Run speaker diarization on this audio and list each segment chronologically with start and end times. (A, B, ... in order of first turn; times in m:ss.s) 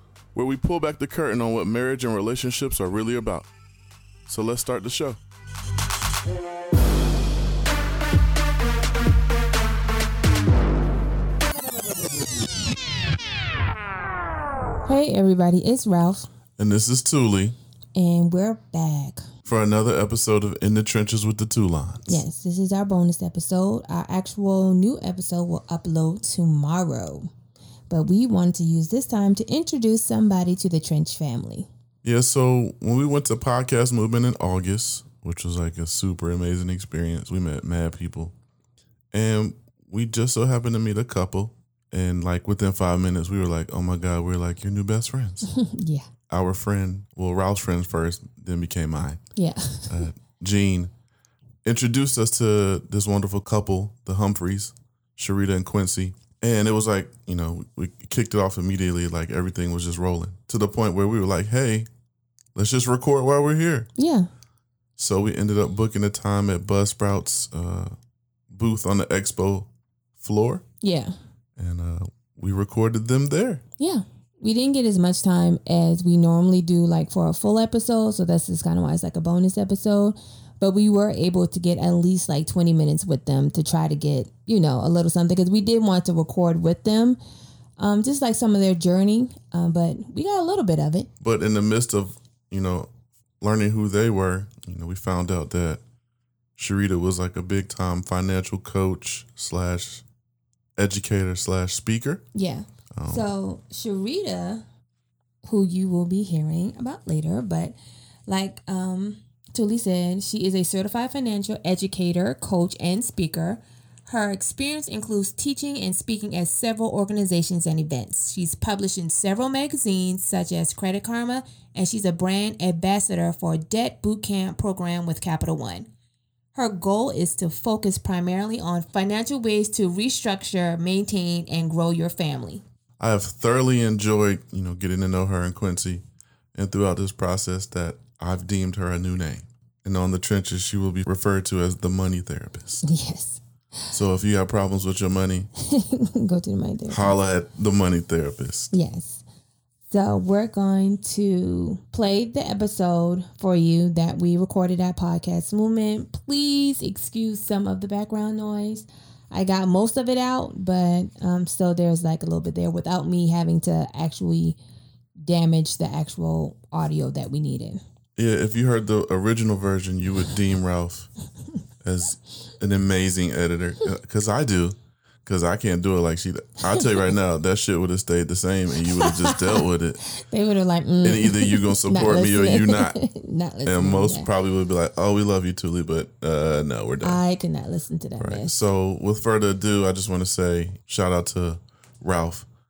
0:00.3-0:03.5 A
0:04.3-0:05.2 A
0:14.8-0:16.3 B
0:16.6-0:17.6 A
0:18.0-0:19.2 B
0:19.5-0:22.2 A
0:22.1-0:27.3 B
0:27.9-0:31.7 B
0:32.0-0:38.3 A
0:39.1-0:45.5 A
0:45.5-0:46.1 B
0:46.3-0:49.2 A
0:49.3-0:50.0 B
0:49.9-0:50.9 A
0:51.6-1:01.9 A
1:02.6-1:03.9 A
1:04.0-1:04.3 B
1:05.0-1:07.9 A
1:08.5-1:10.6 A
1:10.8-1:11.2 B
1:11.6-1:13.6 A
1:13.8-1:27.2 B
1:27.8-1:31.1 B
1:31.2-1:35.8 A
1:36.6-1:40.0 A
1:40.8-1:42.3 A
1:42.3-1:44.6 B
1:42.9-1:43.3 A
1:45.4-1:47.7 B
1:48.3-2:05.9 B
2:06.5-2:12.6 B
2:13.0-2:16.0 A
2:16.5-2:22.9 A
2:22.8-2:23.4 B
2:23.9-2:25.5 A
2:25.6-2:27.2 B
2:26.9-2:28.7 A
2:28.7-2:29.2 B
2:29.9-2:44.6 B
2:45.2-2:47.8 B
2:48.2-2:51.1 A
2:51.8-3:00.0 A
2:58.9-3:04.3 B
3:01.0-3:03.0 A
3:03.6-3:07.2 A
3:07.0-3:08.5 B
3:08.2-3:12.4 A